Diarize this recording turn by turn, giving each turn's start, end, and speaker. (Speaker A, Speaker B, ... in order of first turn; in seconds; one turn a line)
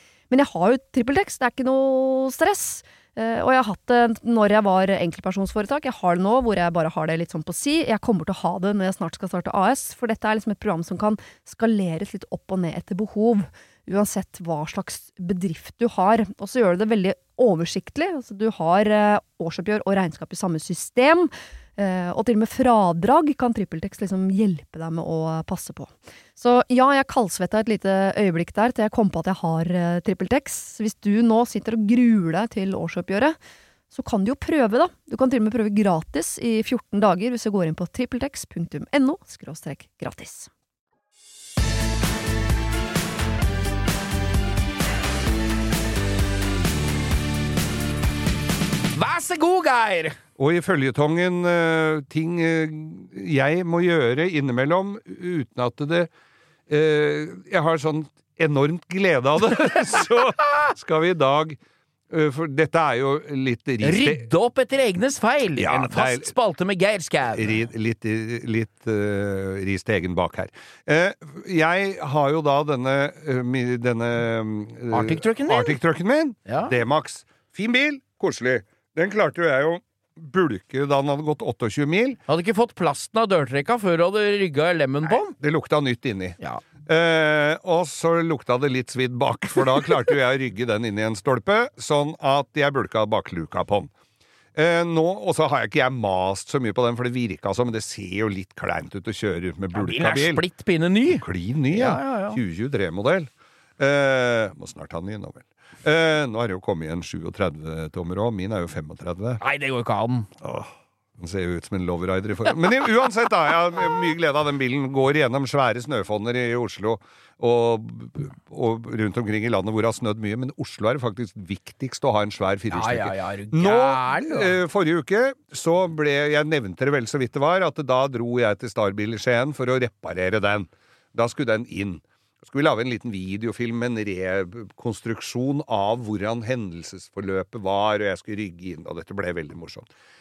Speaker A: 0.3-33.4
Speaker A: 33.9-40.5
Speaker B: 49.0-50.2
Speaker C: 50.4-56.1
Speaker C: 56.7-61.6
Speaker C: 62.1-64.3
Speaker B: 63.8-67.6
Speaker C: 65.6-66.3
Speaker C: 67.3-82.2
Speaker B: 74.9-75.8
Speaker B: 76.5-76.7
Speaker B: 82.3-85.3
Speaker C: 85.1-93.9
Speaker C: 94.5-100.4
Speaker B: 99.7-102.4
Speaker C: 101.1-109.4
Speaker B: 109.4-110.3
Speaker C: 110.4-139.9
Speaker B: 122.7-124.6